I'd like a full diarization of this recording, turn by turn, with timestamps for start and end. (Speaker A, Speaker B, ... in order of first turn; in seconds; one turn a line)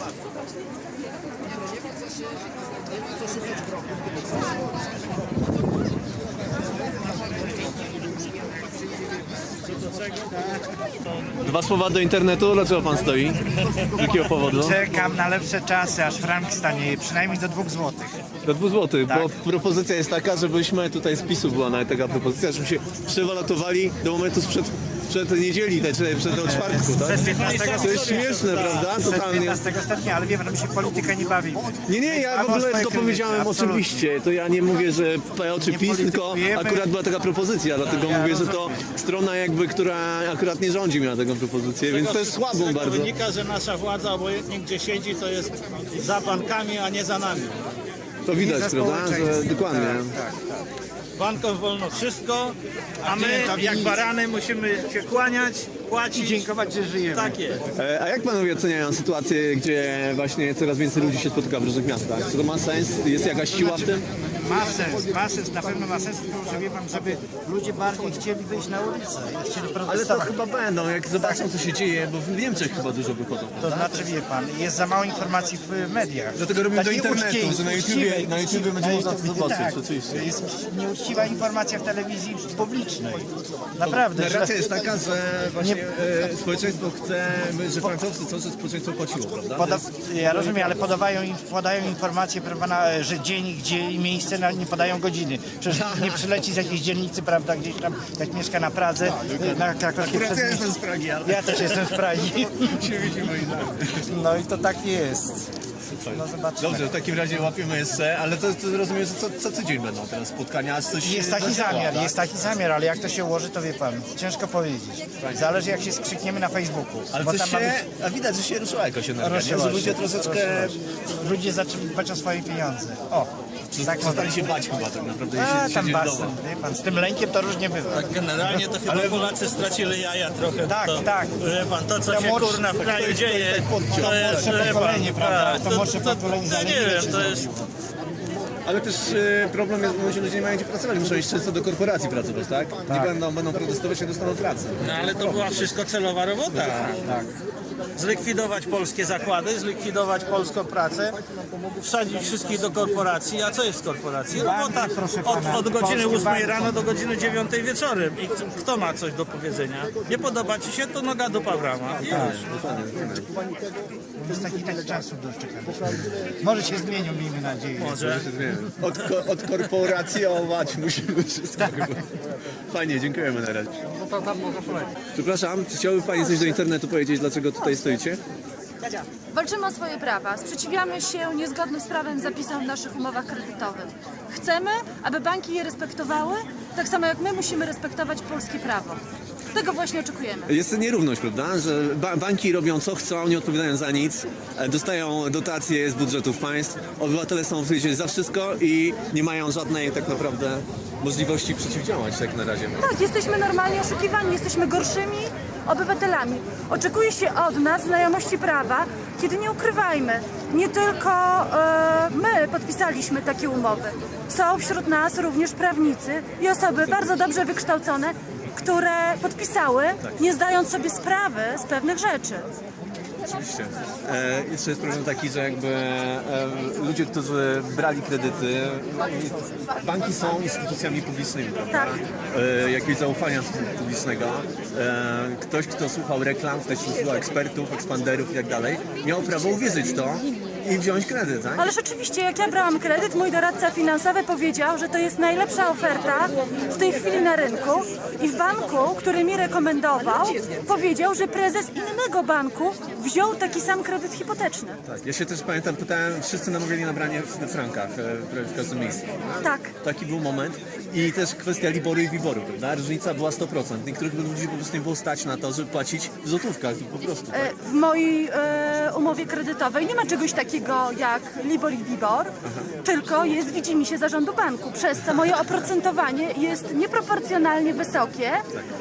Speaker A: 11.4-14.8
Speaker B: 14.5-18.2
Speaker A: 18.4-29.6
Speaker B: 26.4-34.0
Speaker C: 27.1-28.9
Speaker A: 31.9-43.1
Speaker B: 35.7-36.9
Speaker B: 37.9-38.8
Speaker C: 41.8-47.6
Speaker A: 48.2-50.1
Speaker B: 48.3-50.6
Speaker C: 51.2-57.6
Speaker B: 53.0-54.1
Speaker B: 56.1-57.4
Speaker A: 57.8-64.1
Speaker B: 63.5-63.9
Speaker B: 64.4-70.3
Speaker A: 69.8-74.1
Speaker B: 73.6-84.6
Speaker A: 76.4-80.3
Speaker A: 83.8-89.9
Speaker B: 89.6-100.7
Speaker A: 95.7-96.3
Speaker A: 99.0-102.0
Speaker B: 101.2-102.8
Speaker A: 102.5-104.1
Speaker B: 104.1-105.5
Speaker A: 106.0-112.2
Speaker B: 106.1-106.9
Speaker B: 111.0-117.8
Speaker A: 115.2-115.5
Speaker A: 117.1-120.8
Speaker B: 119.2-124.5
Speaker A: 123.7-126.3
Speaker B: 125.4-129.3
Speaker C: 127.9-137.5
Speaker B: 130.7-131.5
Speaker B: 132.1-133.1
Speaker A: 132.8-134.8
Speaker B: 133.9-137.7
Speaker A: 138.7-145.0
Speaker B: 142.9-143.2
Speaker C: 144.8-147.3
Speaker A: 146.5-147.0
Speaker C: 147.9-151.2
Speaker C: 151.8-162.4
Speaker B: 154.3-156.8
Speaker A: 162.1-163.3
Speaker B: 162.1-162.4
Speaker B: 164.2-168.0
Speaker C: 167.8-168.2
Speaker A: 168.0-172.0
Speaker A: 172.7-173.8
Speaker A: 175.1-178.2
Speaker D: 179.3-189.0
Speaker D: 189.5-190.5
Speaker A: 190.5-202.8
Speaker D: 202.8-222.5
Speaker A: 216.8-217.1
Speaker A: 223.2-241.7
Speaker D: 241.6-254.8
Speaker A: 254.9-259.2
Speaker D: 259.4-259.7
Speaker A: 259.8-267.5
Speaker D: 267.3-278.4